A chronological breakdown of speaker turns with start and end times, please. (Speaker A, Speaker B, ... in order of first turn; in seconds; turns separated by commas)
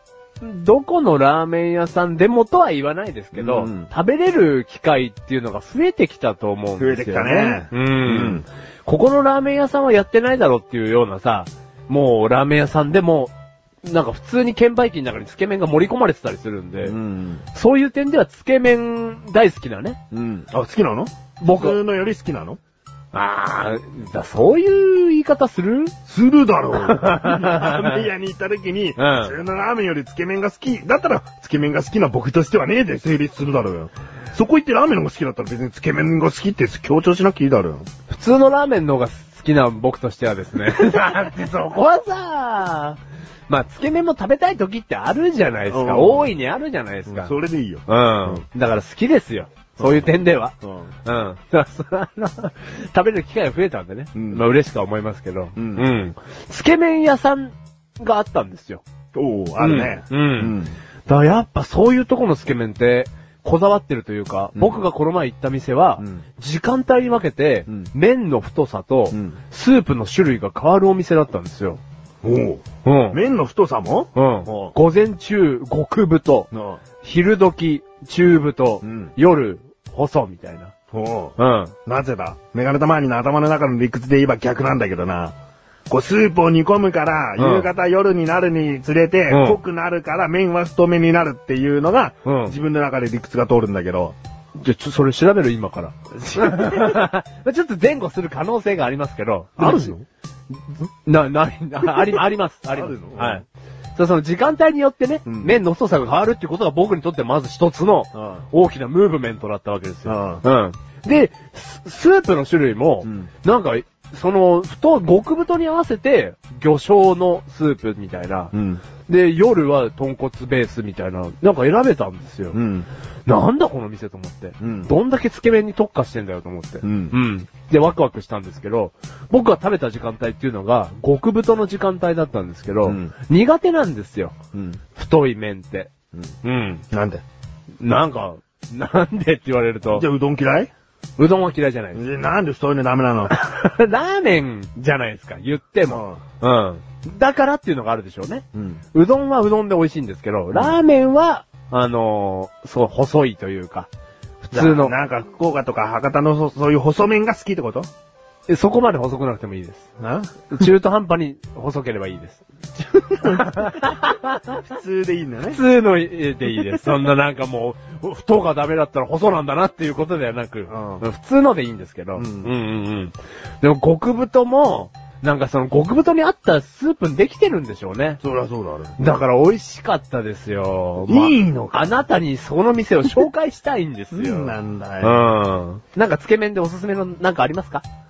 Speaker A: 0.4-13.3, Speaker B: 3.3-3.9, Speaker B: 6.8-8.4, Speaker A: 13.8-16.9, Speaker B: 16.8-17.4, Speaker A: 17.5-20.0, Speaker B: 20.1-22.6, Speaker A: 21.4-21.8, Speaker A: 23.1-25.9, Speaker B: 26.1-37.8, Speaker A: 26.8-28.0, Speaker A: 29.0-29.4, Speaker A: 38.1-47.3, Speaker B: 45.7-46.3, Speaker B: 47.1-48.4, Speaker A: 47.9-50.5, Speaker B: 49.8-50.1, Speaker B: 50.6-50.9, Speaker A: 51.0-58.8, Speaker B: 54.1-54.4, Speaker B: 55.6-55.9, Speaker B: 59.1-60.7, Speaker A: 59.6-60.5, Speaker A: 61.1-71.8, Speaker B: 64.5-64.8, Speaker B: 69.1-69.4, Speaker B: 72.2-74.8, Speaker A: 72.8-73.2, Speaker A: 74.1-76.5, Speaker B: 76.5-76.8, Speaker A: 77.0-80.7, Speaker B: 78.8-79.1, Speaker B: 80.9-85.3, Speaker A: 81.4-81.7, Speaker B: 85.9-94.1, Speaker A: 87.4-87.7, Speaker A: 89.3-89.6, Speaker A: 92.2-92.5, Speaker A: 94.5-99.9, Speaker B: 96.2-97.0, Speaker B: 99.6-100.0, Speaker A: 100.5-103.4, Speaker B: 101.9-102.2, Speaker B: 102.7-103.4, Speaker A: 104.0-118.5, Speaker B: 105.2-105.6, Speaker B: 108.1-108.4, Speaker B: 110.0-110.4, Speaker B: 113.0-113.3, Speaker B: 118.5-118.8, Speaker A: 119.0-122.6, Speaker B: 122.5-122.9, Speaker A: 123.2-134.3, Speaker B: 124.6-124.9, Speaker B: 126.8-127.2, Speaker B: 132.8-133.1, Speaker B: 134.5-134.8, Speaker A: 134.9-135.9, Speaker A: 136.4-136.8, Speaker B: 136.9-137.2, Speaker A: 137.8-140.1, Speaker B: 139.9-140.7, Speaker A: 141.2-142.0, Speaker B: 141.9-143.3, Speaker A: 143.3-153.9, Speaker B: 145.9-146.2, Speaker B: 148.5-148.8, Speaker B: 150.5-150.8, Speaker A: 154.4-154.9, Speaker B: 154.5-157.9, Speaker A: 158.5-159.8, Speaker B: 160.0-160.7, Speaker A: 160.5-162.4, Speaker B: 162.8-163.9, Speaker A: 163.2-164.6, Speaker B: 164.5-165.6, Speaker A: 165.4-178.2, Speaker B: 170.7-171.0, Speaker B: 172.2-172.5, Speaker B: 178.2-179.0, Speaker A: 179.0-187.8, Speaker B: 181.0-181.9, Speaker B: 184.1-185.3